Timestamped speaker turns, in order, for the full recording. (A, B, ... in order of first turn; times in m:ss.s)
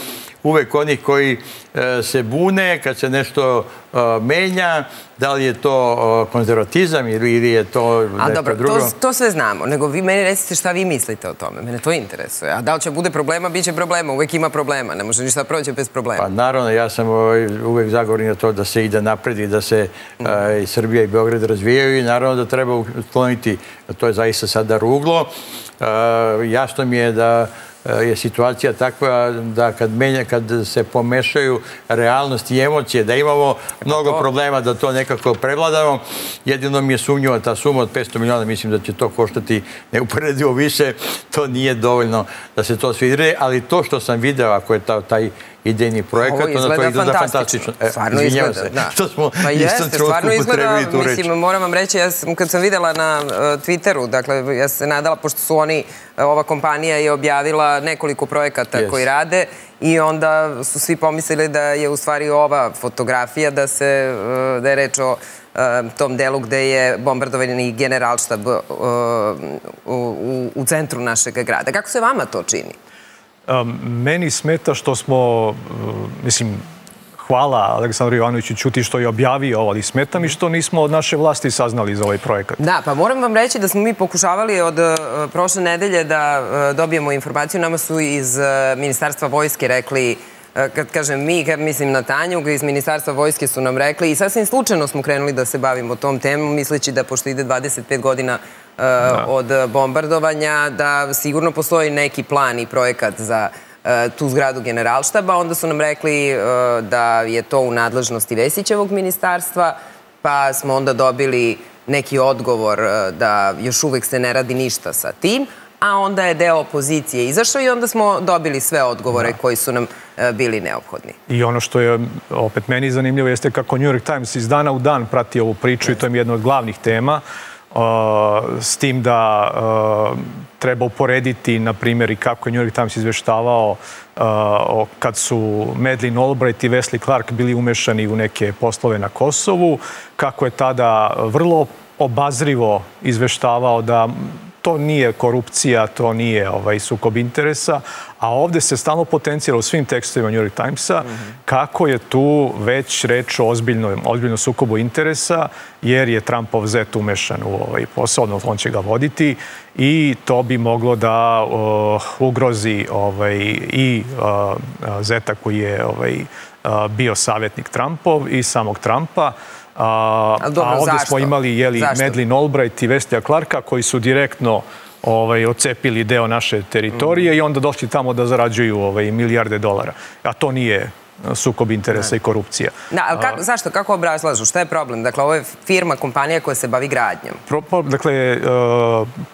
0:00.4-0:08.9 A
0:08.2-0:16.3 B
0:16.2-0:51.3 A
0:33.9-0:34.2 B
0:46.2-1:12.8 B
0:58.7-0:59.0 A
1:13.5-1:16.6 C
1:17.2-1:22.6 C
1:22.6-2:01.2 B
2:01.3-3:02.7 C
2:50.4-2:52.2 B
3:02.9-3:07.4 B
3:07.5-3:09.1 C